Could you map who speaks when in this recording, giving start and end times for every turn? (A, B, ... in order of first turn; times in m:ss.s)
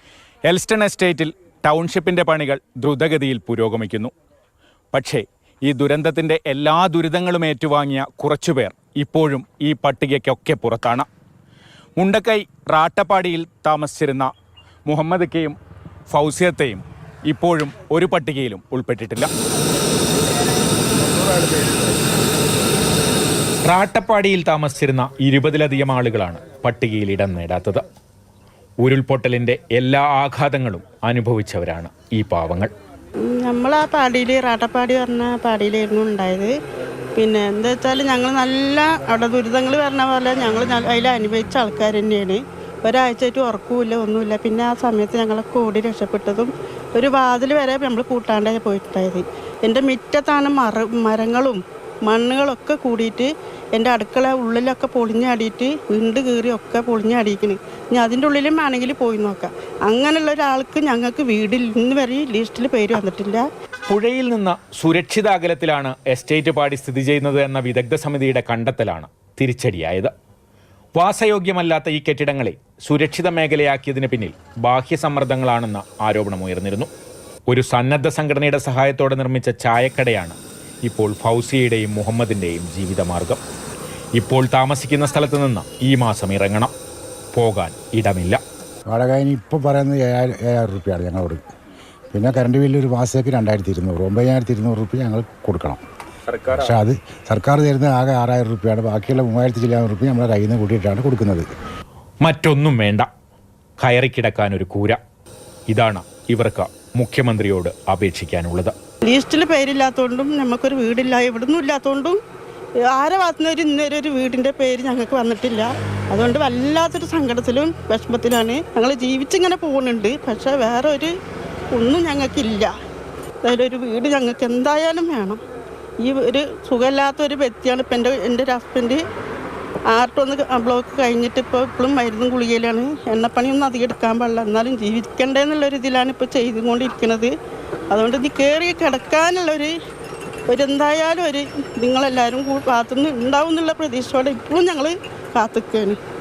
0:00.4-0:04.1 A
0:04.9-0:11.1 A
0:12.0-0:14.3 A
0:14.9-0:15.6 A
0:16.1-0:19.3 A
0:23.6-0:27.8 A
0:28.8-0:32.7 A
0:33.3-0:36.5 B
0:37.2-1:03.4 B
1:03.9-1:10.1 A
1:11.0-1:16.9 A
1:17.5-1:23.4 A
1:24.1-1:26.7 A
1:27.3-1:28.4 A
1:28.9-1:31.4 C
1:32.1-1:35.8 C
1:36.3-1:36.7 A
1:36.5-1:41.4 C
1:42.2-1:43.1 A
1:43.8-1:45.0 A
1:45.7-1:48.7 A
1:49.0-1:52.2 B
1:52.9-2:01.1 B
2:01.7-2:02.7 B
2:03.4-2:05.4 B
2:06.0-2:09.0 B
2:09.9-2:17.3 B
2:17.9-2:19.7 B
2:20.5-2:26.0 B